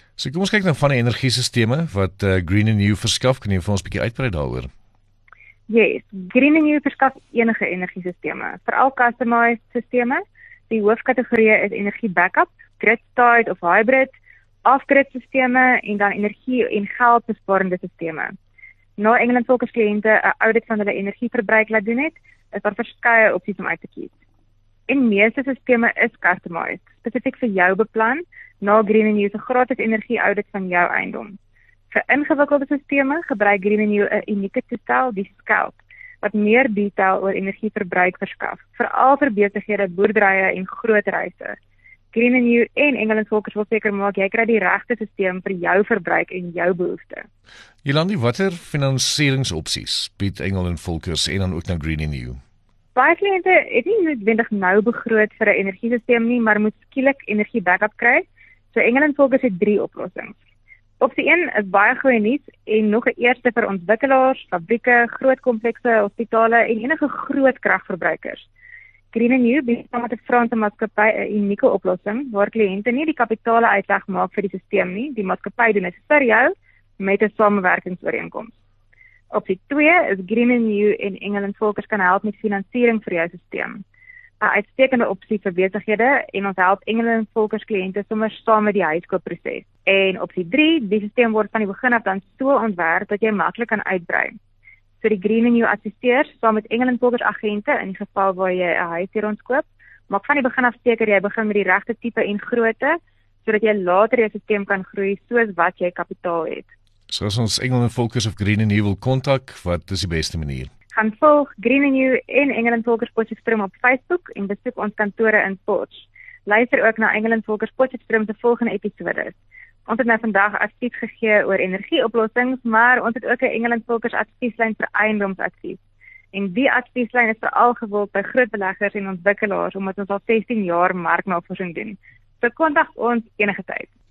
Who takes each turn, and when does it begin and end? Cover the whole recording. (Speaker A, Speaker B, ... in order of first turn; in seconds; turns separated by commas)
Speaker A: 0.2-4.7, Speaker B: 5.7-14.1, Speaker B: 14.6-18.3, Speaker B: 19.0-24.1, Speaker B: 24.9-31.4, Speaker B: 31.9-41.6, Speaker B: 42.1-47.2, Speaker A: 47.8-52.4, Speaker B: 52.9-60.4, Speaker B: 61.0-68.5, Speaker B: 69.1-78.6, Speaker B: 79.3-83.8, Speaker B: 84.4-94.3, Speaker B: 95.0-106.7, Speaker A: 107.1-110.7, Speaker B: 110.9-125.8, Speaker B: 126.3-133.9